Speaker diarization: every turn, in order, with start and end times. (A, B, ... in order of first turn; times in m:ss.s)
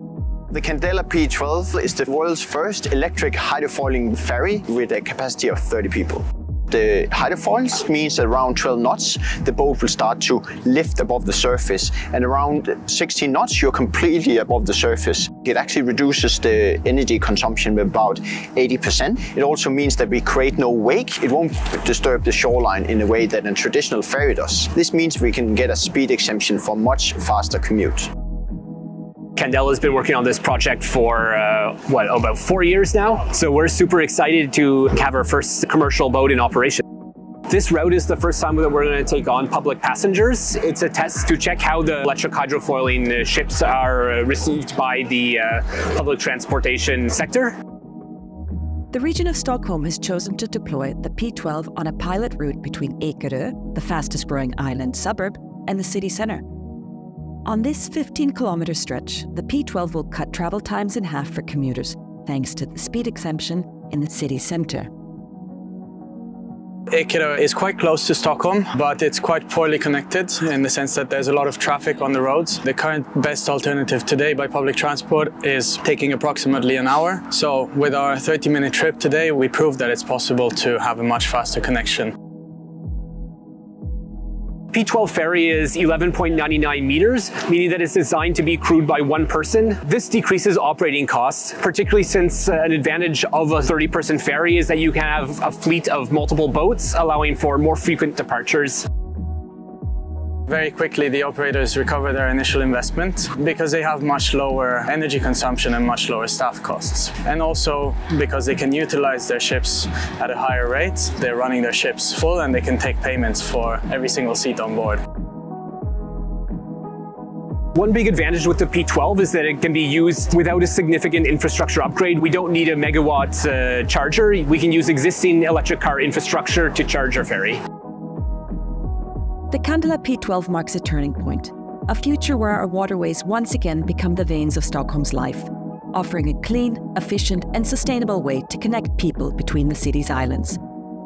0:00.5-0:28.1 A
0:29.4-0:36.8 B
0:37.5-0:47.6 B
0:48.9-0:56.4 C
0:57.4-1:04.9 C
1:06.9-1:22.1 D
1:24.7-1:38.8 B
1:40.5-1:55.0 D
1:57.7-2:07.6 B
2:09.5-2:20.6 C